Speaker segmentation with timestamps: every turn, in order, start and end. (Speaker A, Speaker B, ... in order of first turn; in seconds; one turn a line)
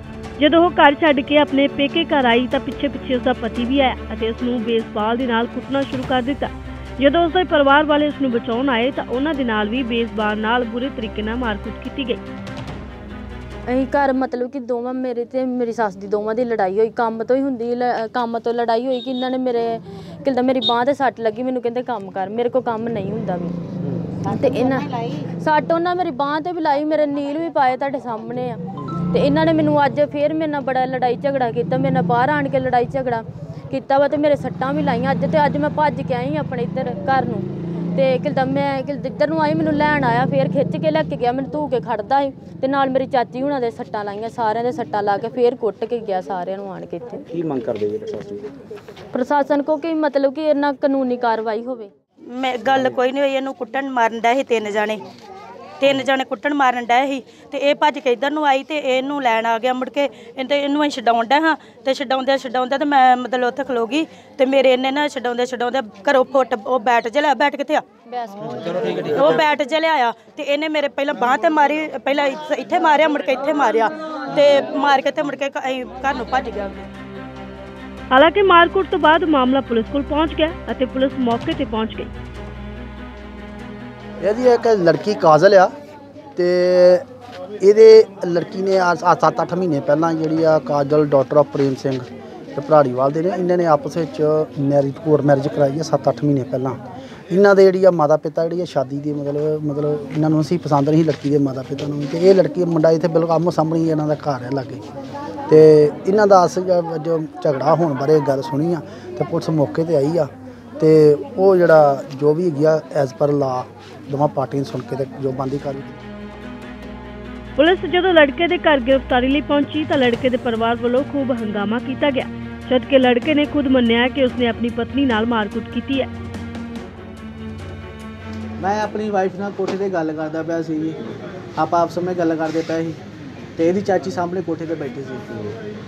Speaker A: 0.4-12.2
Speaker B: 13.7-23.5
Speaker B: 24.3-28.6
Speaker B: 29.1-47.2
Speaker C: 47.3-48.5
Speaker B: 49.1-51.9
Speaker D: 52.3-55.0
Speaker D: 55.8-67.8
Speaker B: 68.1-68.7
Speaker C: 68.6-69.3
Speaker D: 69.1-76.8
Speaker A: 78.1-82.1
Speaker E: 84.2-85.7
Speaker E: 86.3-87.0
Speaker E: 87.6-96.8
Speaker E: 97.3-104.8
Speaker E: 105.5-116.0
Speaker A: 117.6-126.1
Speaker F: 128.6-131.0
Speaker F: 131.6-133.0
Speaker F: 133.6-135.2